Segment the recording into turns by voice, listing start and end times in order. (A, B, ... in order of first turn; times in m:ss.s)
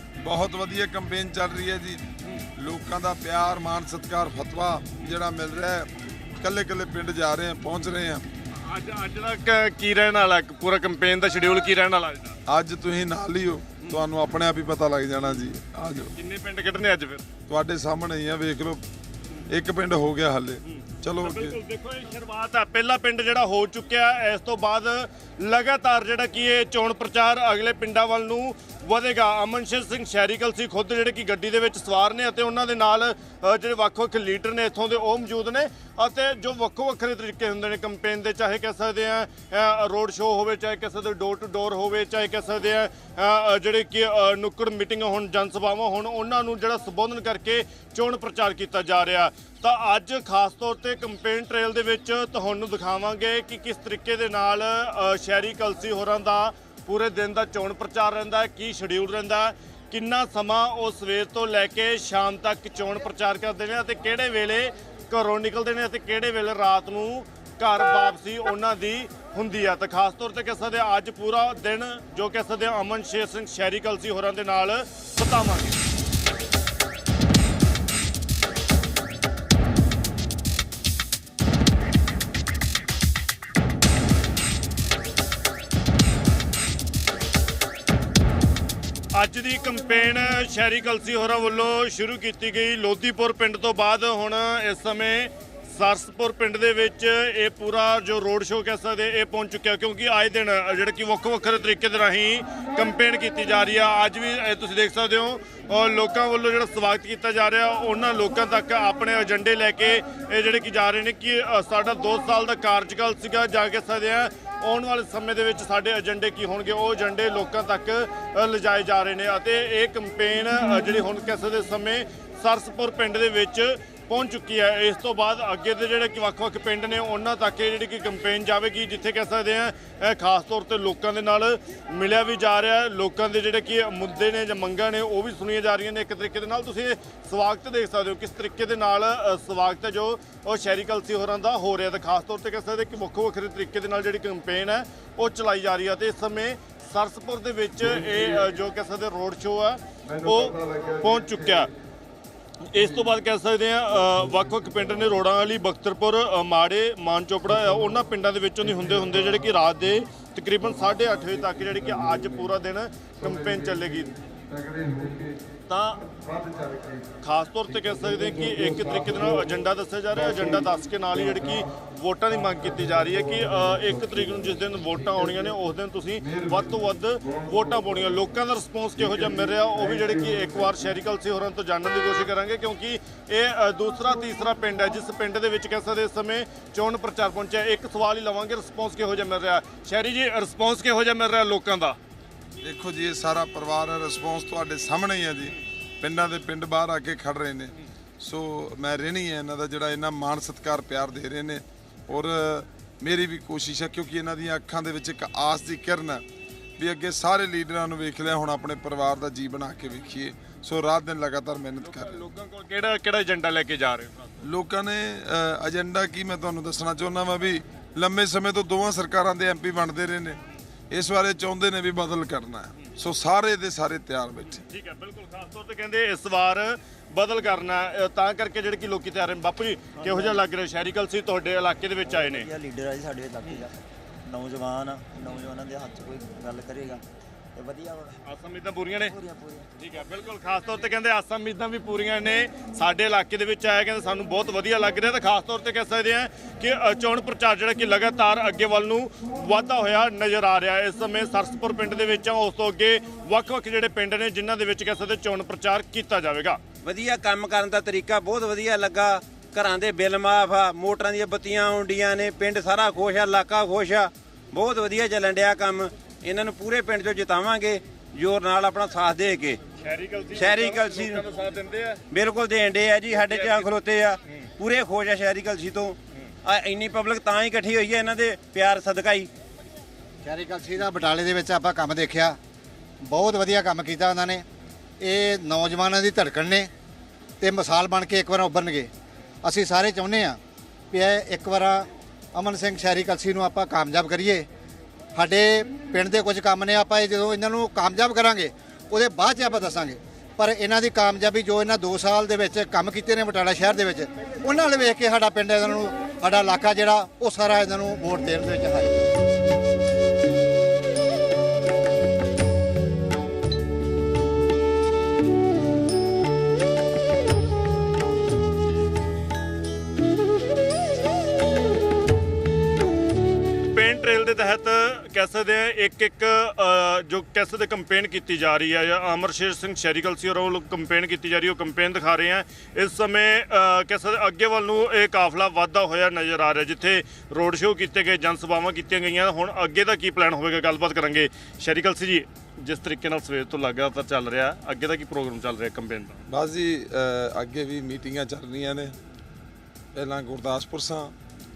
0:00.2-0:08.2 A
0:08.6-0:12.4 B
0:12.5-0:16.1 A
0:16.2-0:17.3 B
0:17.5-0:18.8 A
0:19.5-0:21.6 A
0:20.7-1:15.8 B
1:29.2-2:31.7 B
2:32.7-2:44.1 B
2:45.7-2:46.1 B
2:47.2-3:12.0 B
3:12.6-3:26.2 A
3:26.8-3:32.3 A
3:31.8-3:34.4 B
3:34.4-3:44.6 A
3:44.4-3:52.5 B
3:52.1-3:57.0 C
3:57.6-3:58.1 C
3:58.2-3:59.1 B
3:59.1-3:59.6 C
3:59.8-4:16.6 B
4:16.8-4:29.6 D
4:29.8-4:32.0 B
4:30.4-4:31.2 D
4:32.1-4:39.3 D
4:33.2-4:33.7 B
4:40.2-4:42.4 E
4:43.0-4:44.4 E
4:45.0-4:46.7 E
4:47.4-4:48.9 E
4:49.4-4:50.4 E
4:50.9-4:54.5 E
4:55.2-5:08.9 E
5:23.7-5:46.2 B
5:46.3-5:49.0 A
5:49.9-5:51.2 A